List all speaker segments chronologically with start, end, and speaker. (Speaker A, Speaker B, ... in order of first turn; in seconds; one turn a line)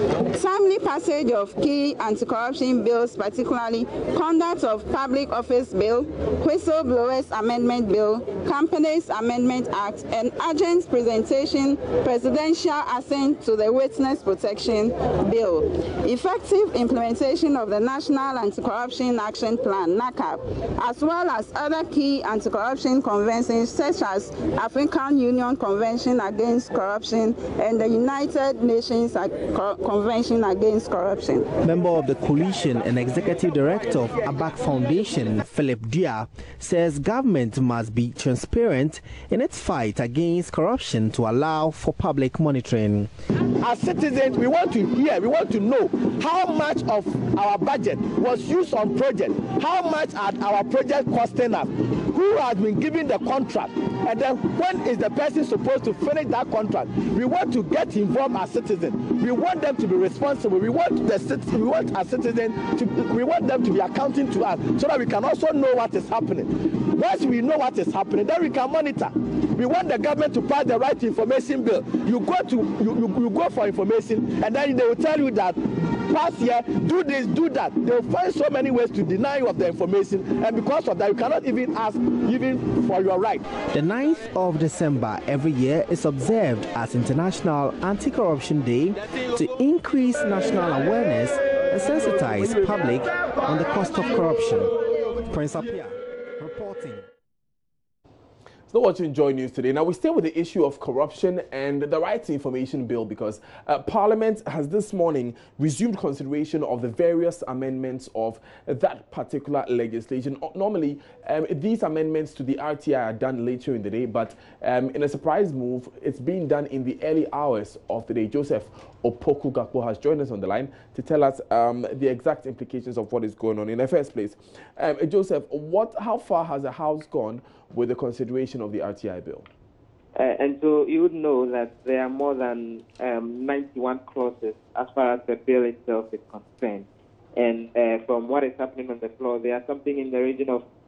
Speaker A: 0.3-31.5
Speaker B: 31.6-43.1
Speaker C: 43.6-83.5
Speaker B: 83.7-97.1
Speaker D: 98.7-129.5
Speaker E: 130.2-140.6